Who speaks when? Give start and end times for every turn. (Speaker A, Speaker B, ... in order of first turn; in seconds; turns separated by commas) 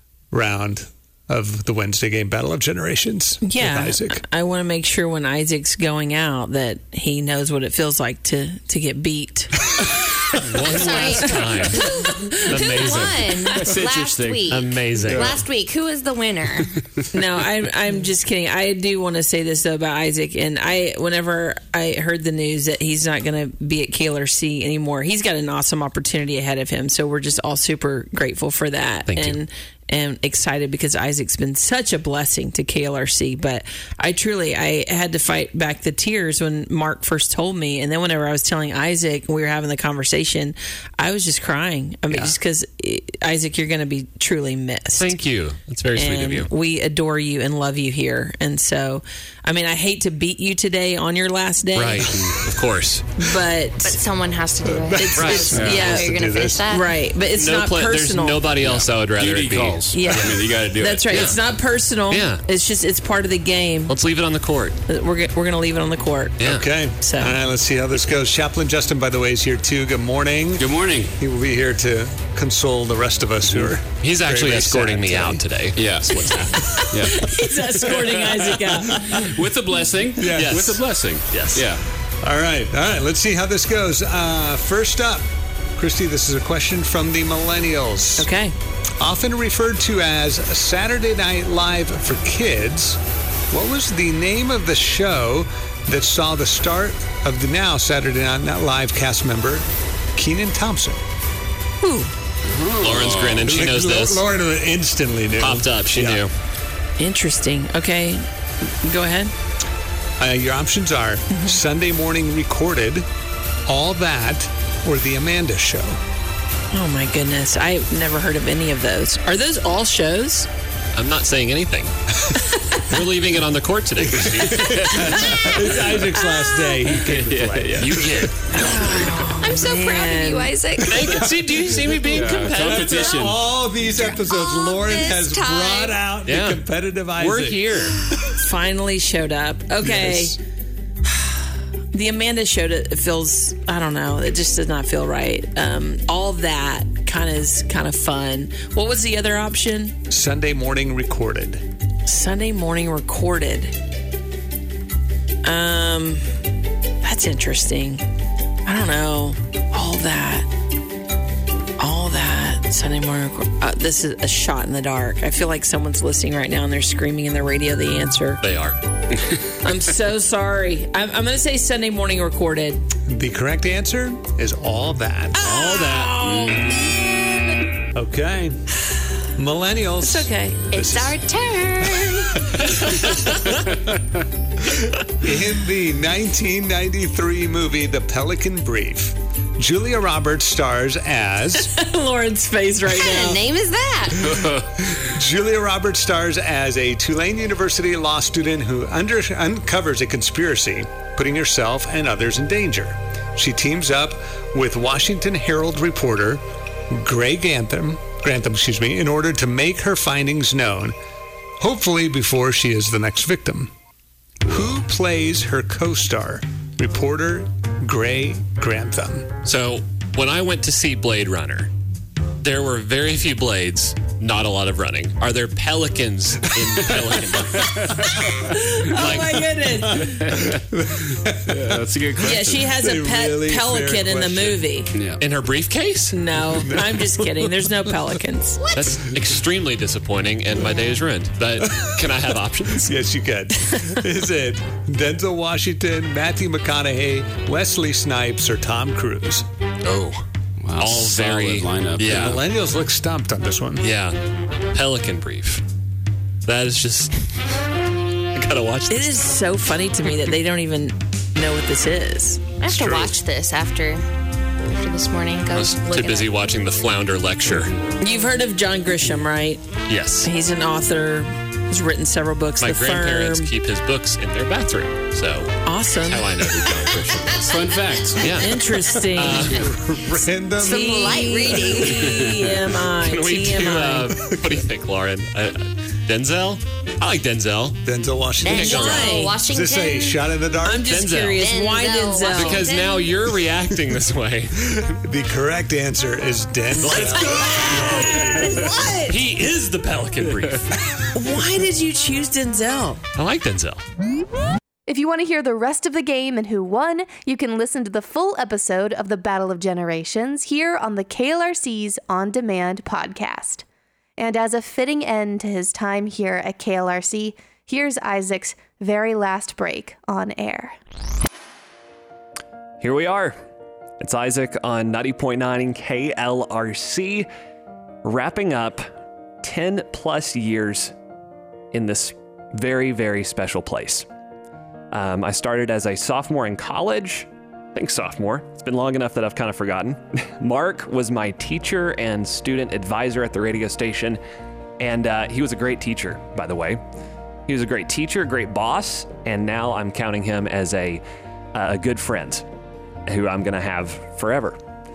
Speaker A: 0.3-4.2, Speaker B: 3.4-9.7, Speaker C: 10.5-11.8, Speaker D: 10.6-16.7, Speaker E: 10.6-11.8, Speaker C: 12.5-15.4, Speaker E: 14.1-14.6, Speaker B: 17.1-45.1, Speaker C: 29.1-29.4, Speaker C: 45.0-46.5, Speaker B: 45.9-52.3, Speaker C: 51.7-53.1, Speaker B: 53.2-54.0, Speaker D: 53.8-56.9, Speaker A: 54.6-56.6, Speaker B: 54.9-56.1, Speaker C: 55.2-55.5, Speaker F: 55.5-55.9, Speaker B: 56.7-58.5, Speaker C: 57.3-61.4, Speaker F: 58.7-61.4, Speaker B: 59.9-63.9, Speaker C: 62.1-62.4, Speaker C: 63.9-64.8, Speaker B: 64.9-66.4, Speaker A: 66.4-70.7, Speaker B: 67.0-67.4, Speaker F: 70.6-71.1, Speaker A: 71.2-75.4, Speaker C: 74.0-76.5, Speaker F: 75.7-81.8, Speaker B: 76.6-79.1, Speaker A: 78.9-79.2, Speaker A: 80.2-80.6, Speaker C: 80.3-80.8, Speaker E: 81.3-81.6, Speaker A: 82.2-88.3, Speaker B: 88.2-88.5, Speaker A: 89.0-101.0, Speaker B: 101.8-102.1, Speaker F: 102.4-103.6, Speaker C: 102.8-104.2, Speaker A: 103.4-106.2, Speaker C: 105.4-106.3, Speaker B: 107.0-109.3, Speaker A: 110.2-113.1, Speaker B: 111.3-111.6, Speaker A: 113.7-116.0, Speaker B: 116.7-120.5, Speaker C: 121.0-121.9, Speaker C: 122.9-125.6, Speaker A: 124.2-128.8, Speaker C: 127.0-129.2, Speaker F: 127.4-127.8, Speaker B: 128.6-130.6, Speaker D: 129.4-131.0, Speaker A: 130.8-131.9, Speaker C: 130.9-133.2, Speaker E: 131.3-132.9, Speaker F: 132.0-133.3, Speaker A: 132.6-137.7, Speaker D: 133.8-136.0, Speaker C: 136.3-136.6, Speaker E: 137.2-137.9, Speaker B: 138.4-140.4, Speaker A: 139.8-140.4, Speaker B: 141.1-141.4, Speaker B: 141.9-150.0, Speaker A: 150.1-151.7, Speaker B: 152.1-153.7, Speaker B: 155.4-156.3, Speaker B: 157.0-158.1, Speaker B: 158.7-160.5, Speaker B: 161.8-168.4, Speaker C: 168.4-169.4, Speaker B: 169.6-172.8, Speaker A: 173.0-175.4, Speaker B: 175.4-177.7, Speaker C: 175.5-176.6, Speaker A: 177.9-178.6, Speaker A: 179.3-181.2, Speaker B: 180.0-180.6, Speaker D: 180.7-182.4, Speaker A: 181.9-183.1, Speaker A: 185.1-191.8, Speaker B: 191.6-193.4, Speaker D: 192.9-194.3, Speaker A: 194.3-210.9, Speaker A: 211.6-213.7, Speaker A: 214.4-219.3, Speaker C: 219.4-221.7, Speaker C: 222.4-229.6, Speaker B: 228.7-230.2, Speaker A: 229.8-234.6, Speaker F: 231.5-232.6, Speaker B: 232.2-234.9, Speaker F: 234.9-235.2, Speaker C: 235.2-236.2, Speaker B: 236.1-238.6, Speaker A: 236.6-237.3, Speaker C: 238.7-242.9, Speaker A: 241.6-242.1, Speaker A: 242.8-249.4, Speaker C: 249.9-250.2, Speaker F: 250.6-252.3, Speaker C: 250.8-252.4, Speaker A: 252.0-253.8, Speaker C: 253.8-254.2, Speaker C: 254.7-255.6, Speaker C: 256.4-257.3, Speaker C: 258.3-259.4, Speaker B: 258.9-262.6, Speaker D: 262.6-264.0, Speaker A: 262.7-263.1, Speaker D: 264.6-266.3, Speaker C: 265.5-267.8, Speaker B: 268.0-269.7, Speaker C: 269.9-270.3, Speaker B: 270.2-273.5, Speaker C: 272.6-279.7, Speaker B: 275.6-276.3, Speaker F: 277.4-278.4, Speaker B: 278.4-279.6, Speaker A: 279.5-282.0, Speaker D: 280.6-282.0, Speaker B: 280.6-284.1, Speaker C: 282.0-287.8, Speaker A: 284.2-284.5, Speaker A: 287.8-290.9, Speaker D: 288.4-290.2, Speaker C: 288.5-289.2, Speaker B: 288.7-289.4, Speaker B: 290.6-292.7, Speaker C: 290.9-291.4, Speaker D: 291.3-293.3, Speaker C: 292.3-294.8, Speaker A: 294.7-298.7, Speaker C: 296.8-297.8, Speaker B: 297.3-299.2, Speaker C: 299.1-300.7, Speaker E: 300.2-300.5, Speaker B: 301.1-303.0, Speaker C: 303.2-303.8, Speaker G: 304.9-313.6, Speaker G: 314.2-320.8, Speaker E: 322.8-323.4, Speaker E: 324.0-327.3, Speaker E: 328.0-328.9, Speaker E: 329.4-330.9, Speaker E: 331.7-334.1, Speaker E: 334.9-344.2, Speaker E: 344.8-346.8, Speaker E: 347.5-351.0, Speaker E: 351.5-352.4, Speaker E: 353.1-354.6